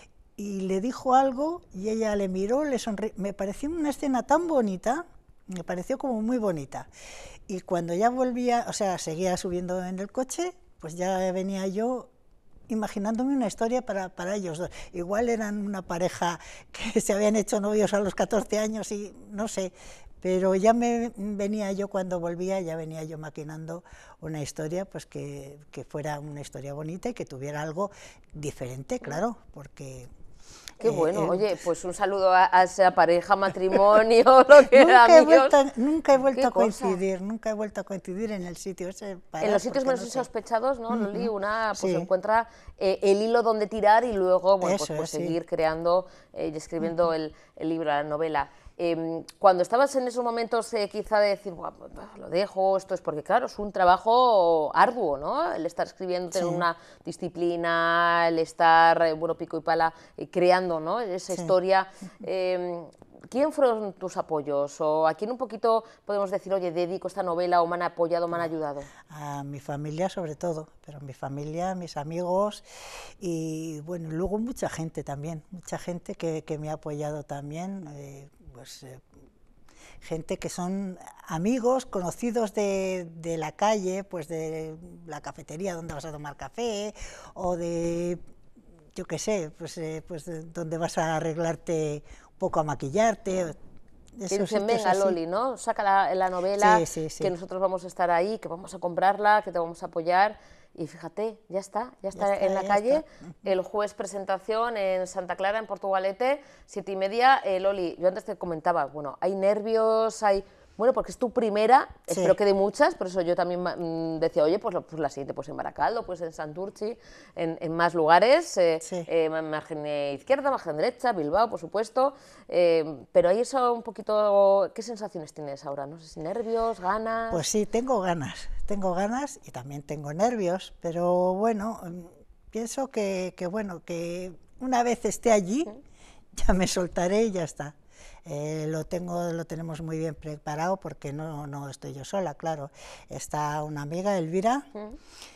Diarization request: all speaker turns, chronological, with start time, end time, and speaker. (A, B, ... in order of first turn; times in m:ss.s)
0:00.4-0:06.9 A
0:07.5-0:12.1 A
0:12.7-0:30.1 A
0:30.8-0:31.6 A
0:30.8-0:35.6 B
0:34.7-0:40.3 A
0:36.3-0:37.0 B
0:39.4-1:08.9 B
0:40.9-0:42.1 A
0:44.6-0:45.4 A
0:56.3-0:56.6 A
1:09.1-1:12.6 A
1:13.2-1:19.0 A
1:20.0-1:28.2 A
1:29.0-1:33.6 A
1:34.2-1:35.2 A
1:34.3-2:07.4 B
1:36.6-1:37.3 A
1:42.2-1:43.0 A
2:07.3-2:15.8 A
2:16.4-2:17.8 A
2:18.2-2:24.7 A